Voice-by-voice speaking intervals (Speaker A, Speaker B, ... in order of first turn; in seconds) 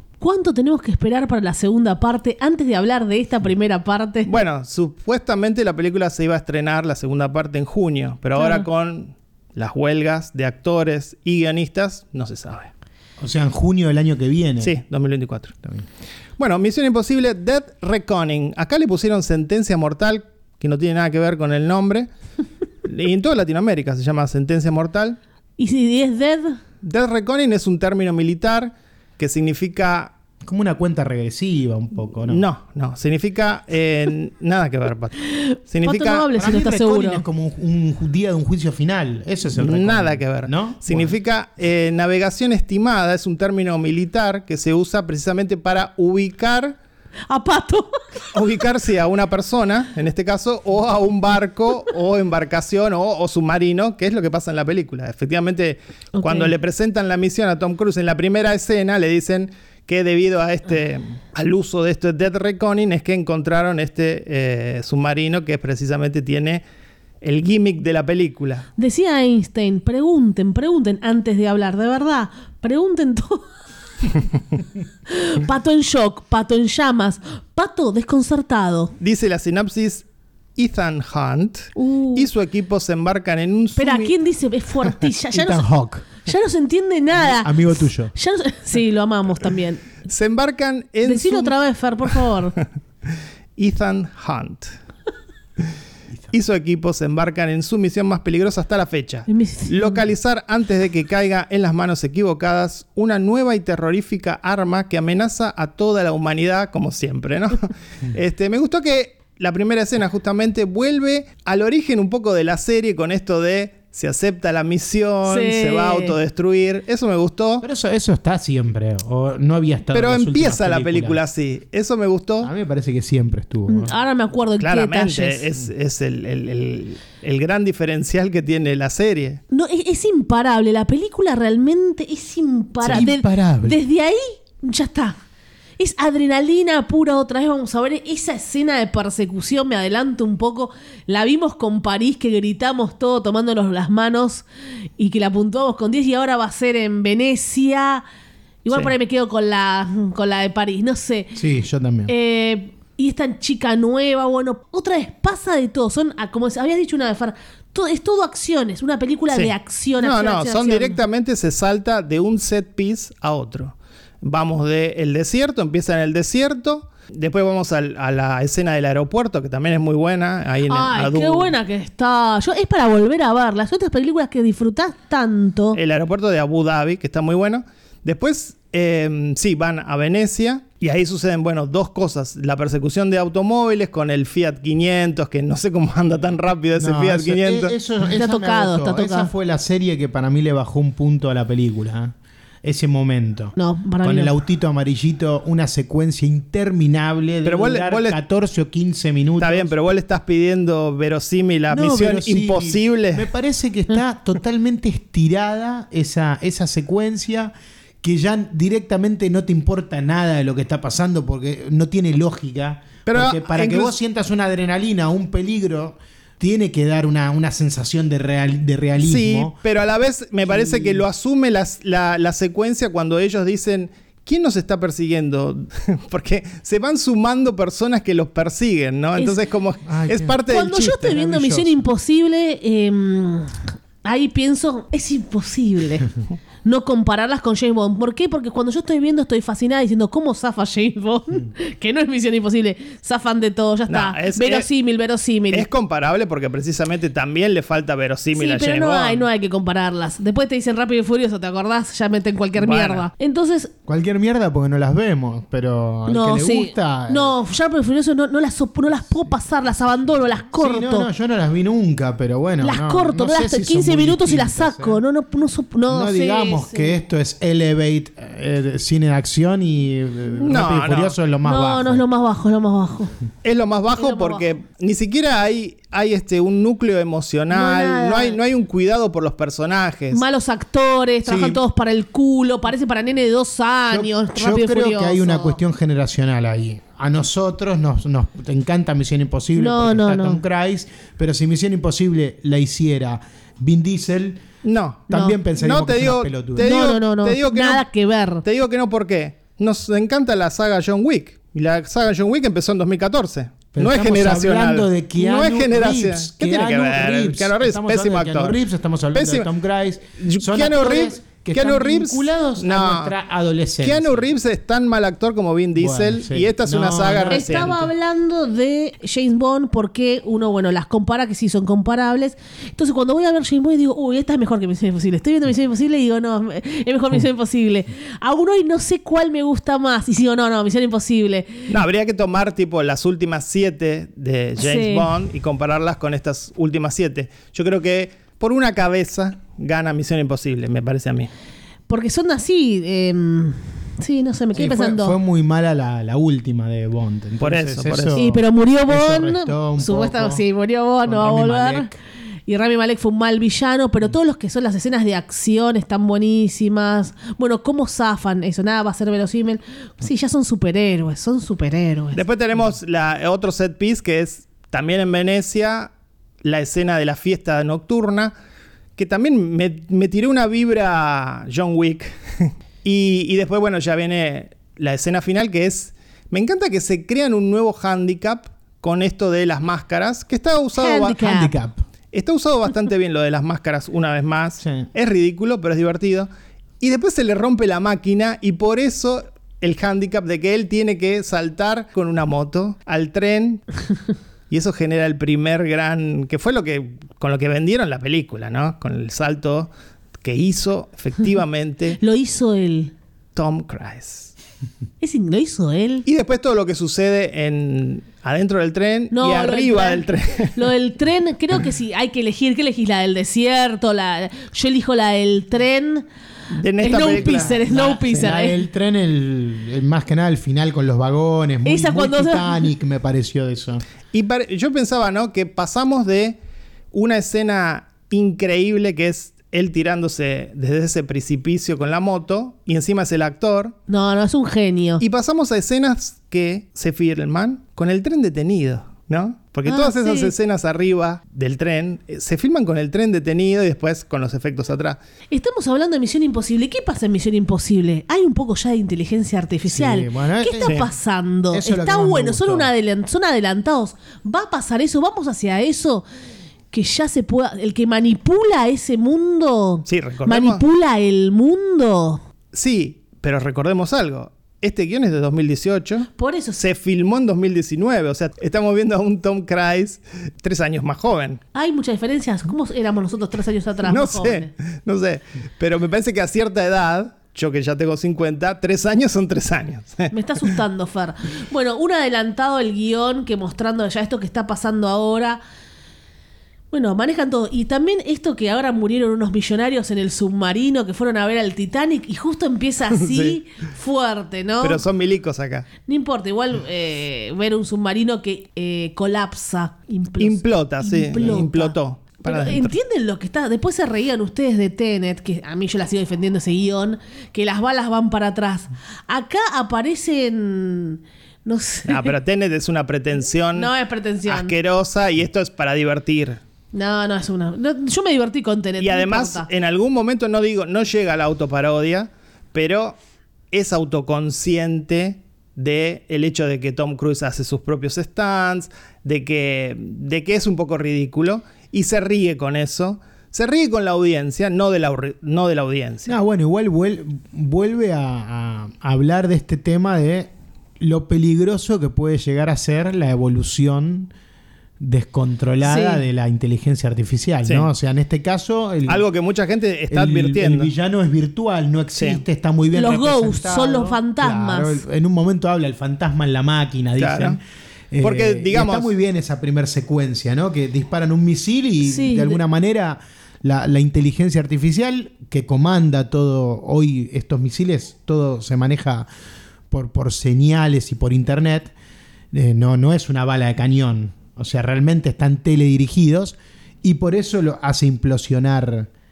Speaker A: 0.2-4.3, 8.4-8.7, 25.6-26.6, 35.3-37.2, 47.3-48.0, 56.2-56.5, 68.8-73.5, 75.1-78.9, 81.8-82.3, 83.8-85.7, 86.2-89.8, 91.0-92.5, 99.3-100.0, 115.2-116.2, 123.7-125.5, 129.5-135.2, 135.8-144.4, 145.0-148.0, 148.7-151.3, 152.1-161.0, 170.7-175.8, 188.2-189.3, 193.6-194.3, 230.5-236.1, 236.6-245.7, 248.3-253.7, 256.1-261.1, 262.6-266.9, 271.4-273.1, 274.0-274.4, 277.5-278.4, 280.1-285.6, 289.6-290.4, 295.1-295.4, 296.6-298.4, 317.3-331.7, 334.6-335.1, 341.9-345.2, 348.1-351.9, 352.5-362.2, 380.8-381.5, 402.0-402.9, 405.0-406.1, 409.1-416.1, 416.8-418.6, 421.6-422.7, 433.9-435.0, 439.7-440.3, 445.3-456.1, 456.7-462.2, 466.2-466.6, 471.5-474.5, 480.1-485.4, 486.7-494.8, 495.9-512.1, 513.5-514.5, 516.7-519.5, 545.6-546.0, 552.7-554.8, 561.8-562.4
Speaker B: 4.3-12.7, 14.6-15.6, 16.4-22.1, 22.8-25.2, 26.8-30.1, 32.3-35.2, 35.7-36.3, 39.6-46.8, 48.3-66.6, 67.2-68.7, 79.0-80.0, 80.6-84.1, 90.1-92.2, 93.6-94.7, 96.3-117.6, 119.9-122.5, 124.6-129.4, 132.8-133.1, 159.3-171.6, 175.7-187.8, 197.4-198.2, 199.4-203.3, 213.1-213.9, 219.0-231.2, 243.9-244.7, 245.5-249.2, 252.6-253.1, 270.4-271.2, 273.4-280.2, 294.6-297.9, 298.4-308.6, 309.1-309.5, 310.2-313.1, 313.8-317.8, 331.7-341.3, 347.4-348.2, 362.1-365.9, 366.4-368.3, 369.0-381.2, 382.1-386.3, 386.8-393.6, 394.5-399.7, 400.2-402.0, 403.4-404.3, 406.1-410.6, 416.5-418.3, 424.1-426.4, 426.9-433.7, 435.0-445.0, 459.9-460.6, 462.5-471.4, 473.9-480.5, 492.9-493.4, 494.6-495.7, 500.2-502.8, 511.9-513.7, 514.3-516.4, 518.8-523.0, 523.5-536.1, 548.9-550.7, 552.0-552.2, 557.0-557.4, 558.0-558.9
Speaker C: 13.2-14.8, 30.4-32.5, 36.3-41.2, 85.3-86.0, 87.3-88.1, 117.6-121.2, 122.4-123.9, 132.9-133.8, 151.3-152.1, 186.8-199.7, 201.7-219.6, 220.4-221.1, 229.9-231.8, 253.9-257.3, 260.5-265.0, 265.9-272.0, 281.2-281.6, 283.9-294.4, 295.1-296.7, 303.7-314.3, 315.8-317.9, 344.6-350.4, 351.0-351.9, 381.2-381.8, 384.6-384.9, 417.1-423.8, 449.7-450.9, 451.5-452.7, 536.1-544.1, 544.8-549.0, 549.9-557.4, 557.9-569.1, 569.7-571.7, 572.3-578.9